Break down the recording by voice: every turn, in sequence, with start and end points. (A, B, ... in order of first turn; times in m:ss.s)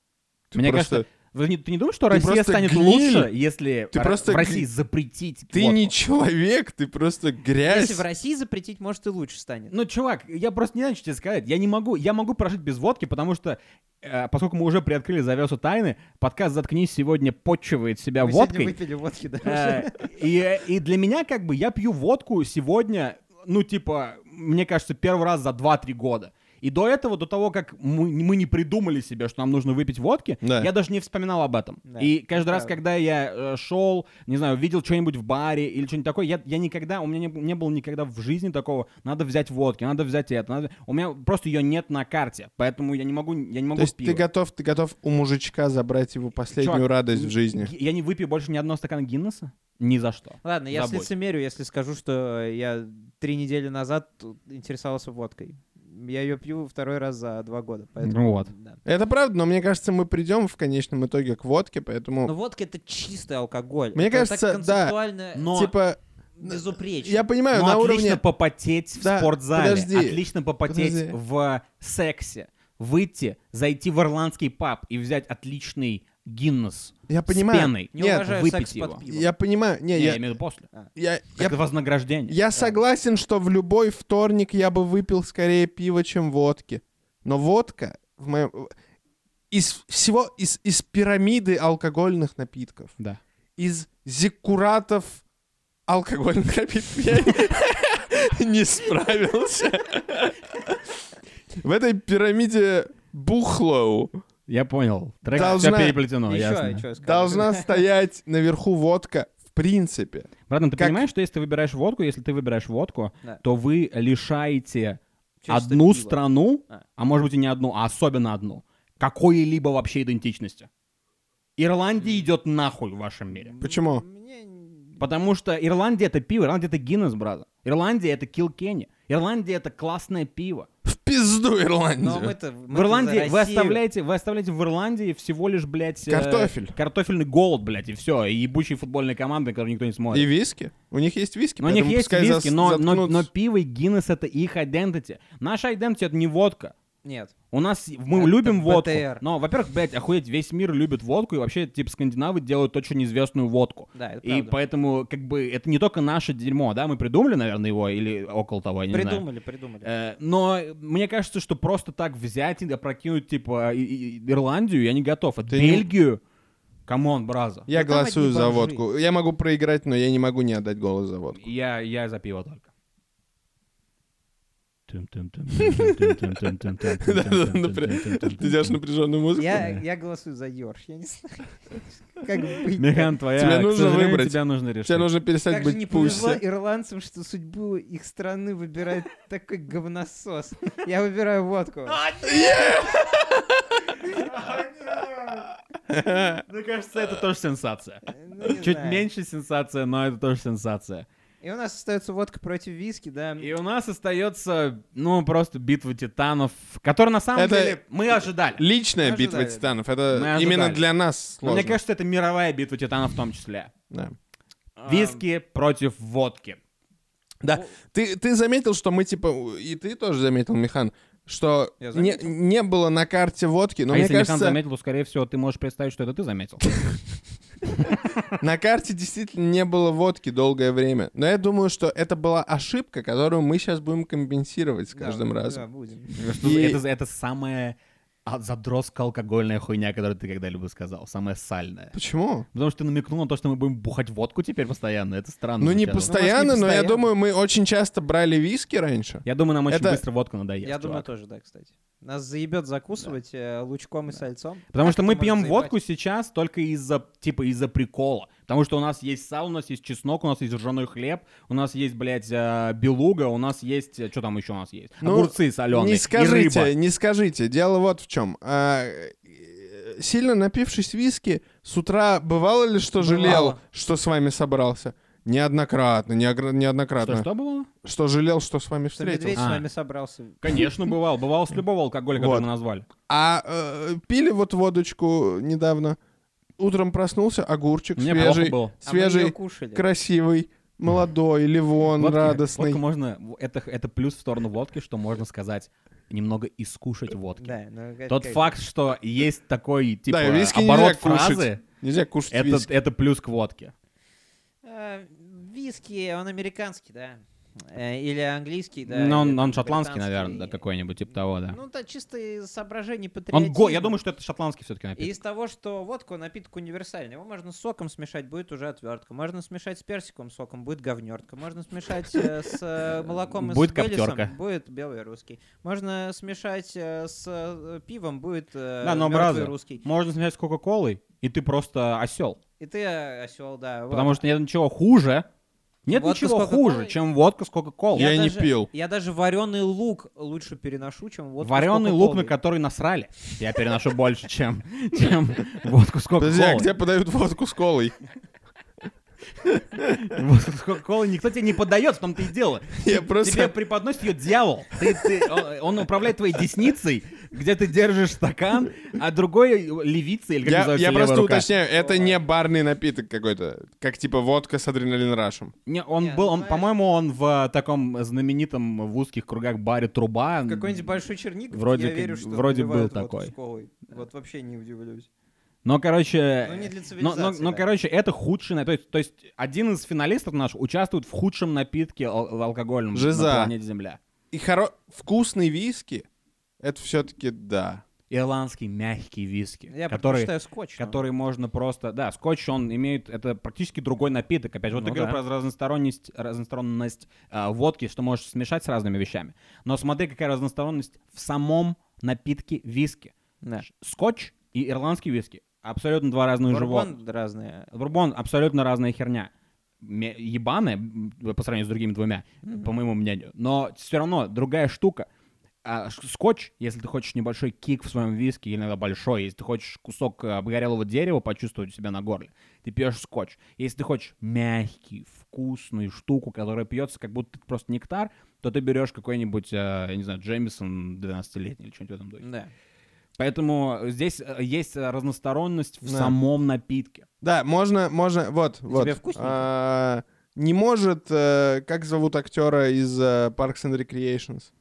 0:00.5-0:01.0 A
0:00.5-0:05.9 B
0:02.1-0:03.3 A
0:03.9-0:04.7 A
0:05.5-0:08.0 A
0:07.6-0:09.7 C
0:09.7-0:18.8 B
0:18.2-0:20.1 C
0:19.4-0:44.2 B
0:30.4-0:30.7 A
0:31.9-0:32.7 C
0:43.8-0:47.7 A
0:46.6-0:51.1 B
0:50.4-0:58.8 C
0:58.0-0:58.5 B
0:58.8-1:02.3 A
1:02.2-1:05.6 C
1:04.0-1:05.0 A
1:05.4-1:05.7 B
1:05.5-1:08.2 A
1:06.4-1:07.2 C
1:07.5-1:19.0 B
1:09.0-1:11.2 A
1:17.1-1:18.3 A
1:17.9-1:19.3 C
1:19.1-1:20.2 A
1:19.9-1:20.7 B
1:21.0-1:21.6 A
1:21.4-1:22.4 B
1:22.3-1:28.7 A
1:22.5-1:22.8 C
1:29.5-1:32.9 A
1:33.6-1:35.2 A
1:35.9-1:41.0 A
1:41.6-1:44.1 A
1:44.5-1:46.8 B
1:45.3-1:46.0 A
1:45.4-1:45.7 C
1:46.3-1:47.7 C
1:47.0-1:51.0 A
1:50.5-2:00.7 B
1:55.4-1:56.8 C
2:01.6-2:03.5 B
2:03.4-2:05.0 C
2:03.6-2:04.0 A
2:05.0-2:10.7 B
2:10.8-2:12.4 A
2:12.0-2:13.8 C
2:12.7-2:20.3 B
2:16.1-2:16.7 A
2:20.1-2:23.3 A
2:21.6-2:26.7 B
2:27.0-2:27.3 C
2:27.5-2:39.2 B
2:28.1-2:29.2 C
2:34.0-2:34.6 C
2:38.9-2:39.9 C
2:39.8-2:46.2 B
2:45.5-2:45.9 A
2:46.9-2:47.7 B
2:47.7-2:51.4 A
2:47.7-2:48.8 C
2:51.4-2:52.7 B
2:54.9-2:58.8 B
2:55.6-2:56.2 A
2:57.0-2:59.8 A
2:59.4-3:03.1 C
3:02.8-3:05.1 B
3:03.4-3:06.4 A
3:05.5-3:12.0 C
3:11.9-3:13.1 B
3:12.2-3:13.8 A
3:14.1-3:15.5 B
3:15.9-3:16.4 A
3:16.2-3:21.1 B
3:18.1-3:19.1 C
3:21.4-3:23.5 C
3:23.4-3:28.6 B
3:27.4-3:27.8 A
3:28.6-3:31.8 A
3:29.0-3:29.7 C
3:30.1-3:30.8 B
3:31.4-3:33.7 B
3:34.8-3:35.2 C
3:34.9-3:36.6 B
3:37.4-3:44.6 A
3:41.8-3:42.2 C
3:43.9-3:46.9 B
3:47.7-3:48.3 B
3:48.4-3:55.6 A
3:54.9-3:56.2 C
3:56.2-4:02.0 B
3:56.4-3:56.8 A
4:01.9-4:02.5 A
4:02.5-4:06.1 B
4:05.6-4:10.0 A
4:06.0-4:07.1 C
4:09.2-4:11.1 B
4:10.6-4:15.7 C
4:14.7-4:26.7 B
4:25.0-4:37.3 A
4:33.0-4:33.6 C
4:37.0-4:37.7 B
4:37.8-4:39.5 A
4:39.0-4:40.4 C
4:39.3-4:39.7 B
4:40.4-4:42.9 B
4:42.2-4:42.5 A
4:43.1-4:46.0 A
4:46.6-4:52.8 A
4:48.0-4:48.8 B
4:48.8-4:49.8 C
4:52.0-4:57.6 B
4:57.4-4:58.6 C
4:58.1-5:01.6 B
5:00.1-5:02.7 A
5:02.3-5:03.7 B
5:04.6-5:10.6 C
5:08.9-5:11.6 B
5:11.5-5:14.0 C
5:13.3-5:15.1 B
5:15.0-5:29.8 C
5:23.2-5:24.3 B
5:28.8-5:32.4 B
5:32.6-5:34.2 C
5:33.9-5:35.3 B
5:35.9-5:38.2 B
5:35.9-5:37.0 C
5:37.9-5:38.7 A
5:37.9-5:42.4 C
5:41.4-5:46.7 B
5:46.2-5:48.0 A
5:49.9-6:01.5 B
5:52.8-5:53.5 A
6:00.4-6:05.5 A
6:01.7-6:02.2 C
6:05.7-6:11.0 B
6:06.0-6:06.7 C
6:10.5-6:15.1 C
6:11.5-6:13.3 B
6:15.6-6:24.0 B
6:16.4-6:17.6 C
6:22.9-6:23.5 A
6:24.3-6:26.0 A
6:26.6-6:27.8 A
6:28.1-6:46.9 B
6:29.7-6:31.0 C
6:34.7-6:35.2 C
6:46.4-6:47.7 C
6:47.7-6:49.3 B
6:49.8-6:55.1 B
6:52.4-6:52.7 C
6:55.6-7:12.2 B
7:12.2-7:12.5 C
7:13.2-7:17.1 B
7:15.8-7:16.2 A
7:17.2-7:24.5 A
7:18.7-7:19.5 C